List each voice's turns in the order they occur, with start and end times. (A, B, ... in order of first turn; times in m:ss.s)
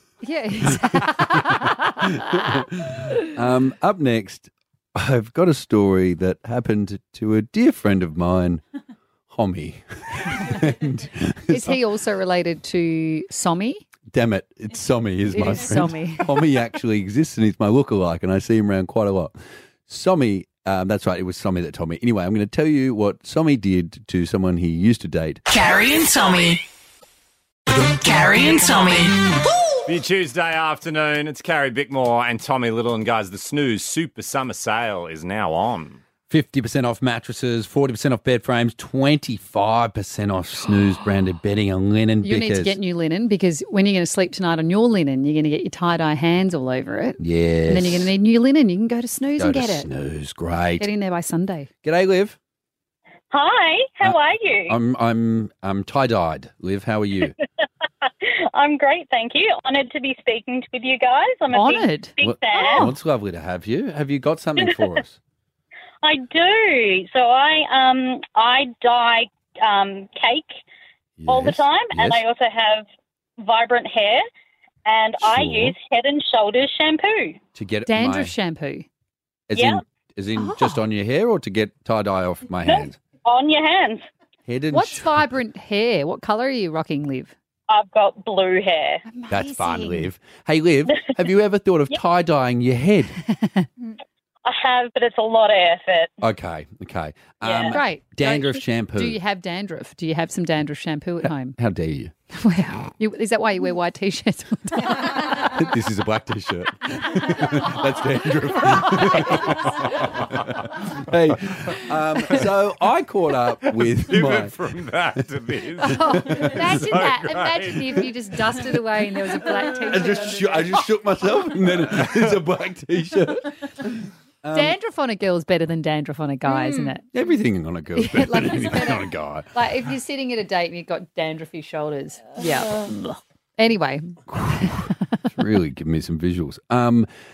0:00.2-0:02.6 A
0:00.7-0:08.6 B
0:09.3-0:11.8 B
0:11.5-0:13.8 A
0:14.1-0:19.4 B
0:15.3-0:16.3 A
0:19.9-0:25.4 B
0:25.5-0:26.6 C
0:27.7-0:29.3 C
0:29.8-0:36.0 D
0:36.3-0:42.8 B
0:42.2-0:49.9 A
0:47.2-0:48.1 B
0:49.4-0:50.9 B
0:50.8-0:51.7 A
0:51.8-0:52.4 B
0:53.3-0:54.8 E
0:54.0-0:57.3 B
0:58.0-1:02.9 E
1:01.5-1:02.9 A
1:02.2-1:05.2 B
1:06.0-1:10.5 E
1:11.2-1:12.2 B
1:11.3-1:12.8 E
1:13.4-1:14.2 E
1:14.8-1:17.4 E
1:15.2-1:15.8 B
1:17.5-1:18.3 B
1:17.9-1:18.9 A
1:19.5-1:23.0 B
1:19.5-1:19.8 E
1:20.4-1:20.8 A
1:22.6-1:24.0 E
1:24.5-1:25.3 B
1:24.7-1:27.3 A
1:27.7-1:29.0 E
1:29.0-1:30.1 A
1:29.3-1:33.2 B
1:33.2-1:33.7 A
1:34.4-1:36.1 E
1:36.2-1:39.2 B
1:37.4-1:37.8 E
1:37.7-1:41.6 A
1:41.6-1:42.1 B
1:42.3-1:45.6 A
1:45.3-1:54.5 B
1:53.8-1:58.0 D
1:55.8-2:00.8 A
1:55.9-1:57.1 B
1:59.6-2:04.8 B
2:04.5-2:07.0 A
2:07.1-2:09.6 B
2:08.0-2:14.9 A
2:14.3-2:17.1 B